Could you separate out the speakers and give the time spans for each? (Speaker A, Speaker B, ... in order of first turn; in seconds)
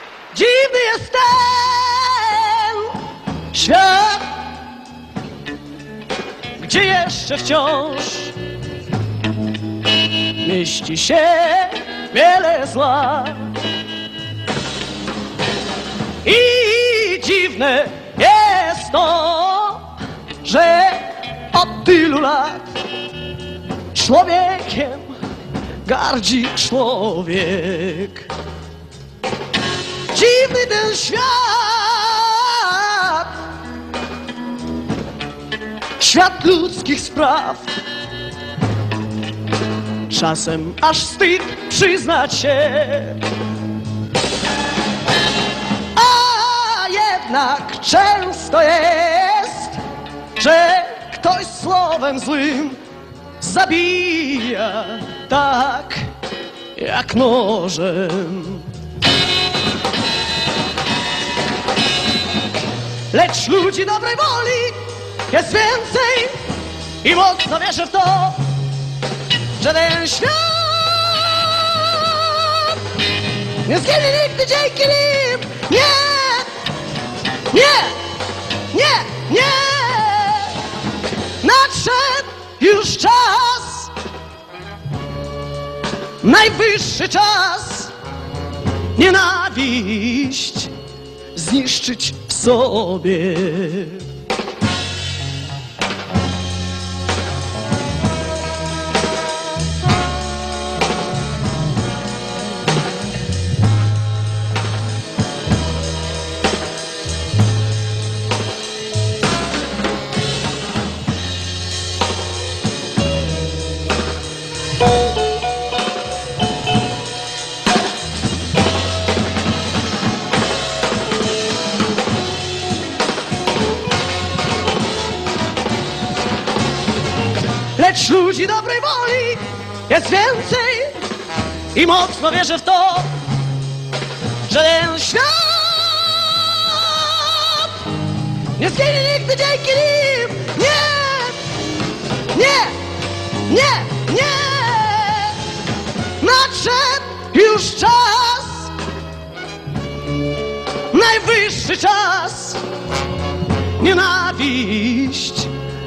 Speaker A: 0.3-3.0, 3.5-4.3, 6.6-8.3, 10.4-13.5, 16.2-22.7, 23.9-25.1, 25.8-28.3, 30.1-33.4, 36.0-37.7, 40.1-43.2, 45.9-49.8, 50.4-52.8, 53.4-56.1, 56.8-58.7, 63.1-66.4, 67.0-68.4, 69.6-72.8, 73.6-76.5, 77.5-78.0, 78.7-80.6, 81.4-83.9, 86.2-87.9, 88.9-90.7, 91.3-94.0, 127.8-131.1, 131.7-133.1, 134.5-137.8, 138.6-141.4, 142.3-142.8, 143.4-145.4, 146.2-148.7, 150.9-152.6, 153.8-155.5